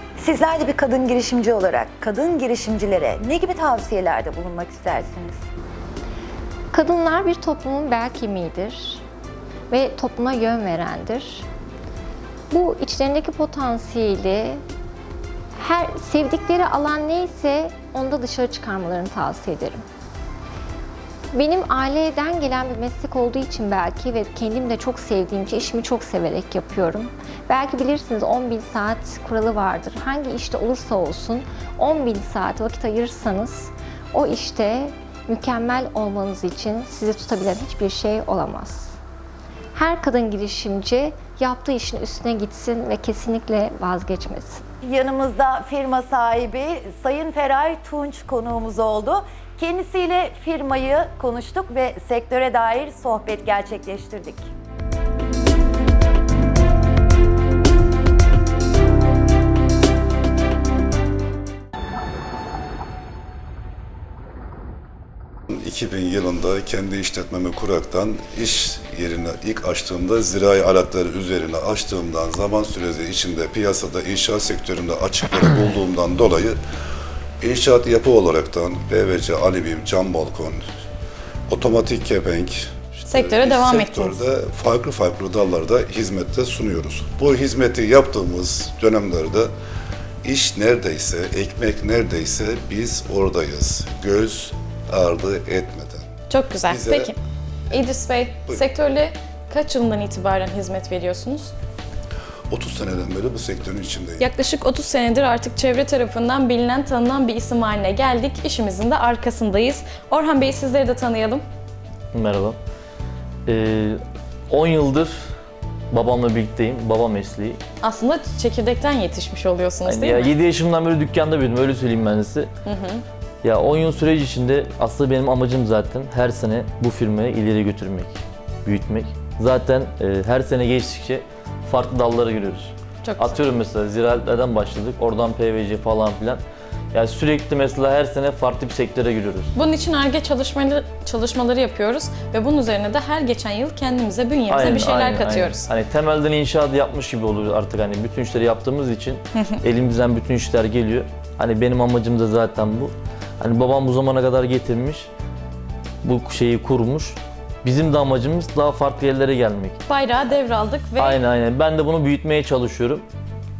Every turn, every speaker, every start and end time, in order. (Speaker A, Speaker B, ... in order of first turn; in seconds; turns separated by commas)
Speaker A: 0.2-5.4, Speaker B: 6.7-9.0, Speaker B: 9.7-11.5, Speaker B: 12.5-14.6, Speaker B: 15.6-19.8, Speaker B: 21.3-39.0, Speaker B: 39.7-44.6, Speaker A: 44.8-54.5, Speaker C: 65.5-76.6, Speaker C: 77.4-80.6, Speaker C: 81.5-89.5, Speaker D: 83.1-84.2, Speaker C: 90.2-96.1, Speaker D: 96.3-97.2, Speaker C: 96.7-97.2, Speaker D: 97.7-101.5, Speaker C: 102.5-104.2, Speaker D: 104.2-111.4, Speaker E: 112.1-112.6, Speaker E: 113.5-115.3, Speaker E: 115.9-117.6, Speaker D: 117.8-120.3, Speaker E: 119.8-122.5, Speaker D: 122.6-123.0, Speaker E: 123.4-136.4, Speaker D: 133.0-133.4, Speaker E: 136.9-139.5, Speaker D: 139.5-145.7, Speaker E: 144.5-155.1, Speaker E: 156.0-159.8, Speaker D: 159.9-161.2, Speaker E: 161.0-163.0